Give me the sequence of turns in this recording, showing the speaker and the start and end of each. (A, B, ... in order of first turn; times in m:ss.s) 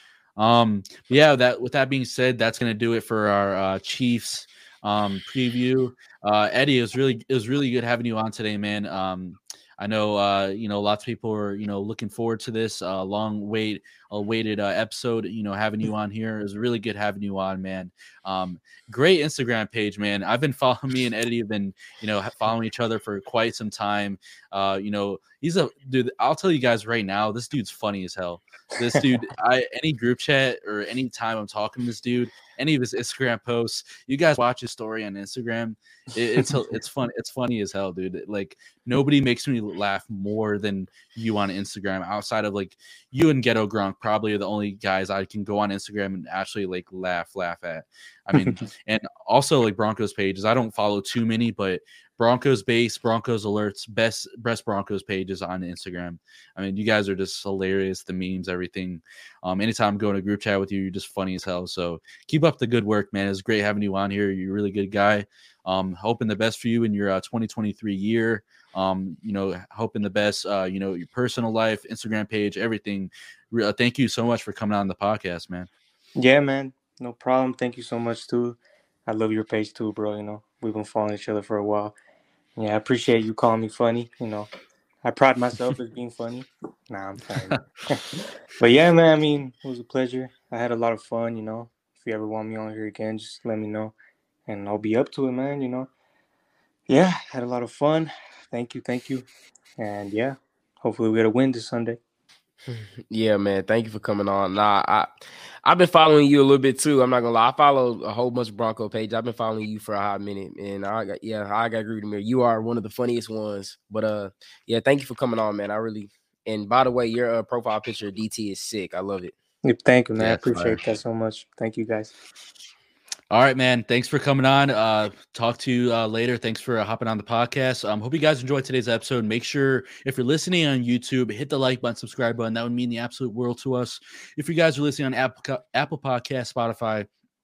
0:00.4-1:15.7 A
1:16.2-1:22.0 B
1:22.6-1:24.5 B
1:25.0-1:33.9 B
1:27.4-1:27.6 A
1:34.5-1:35.9 B
1:36.9-1:39.2 B
1:39.8-1:42.0 B
1:42.7-1:59.3 C
1:59.6-2:02.1 B
2:00.2-2:00.8 A
2:03.3-2:17.1 A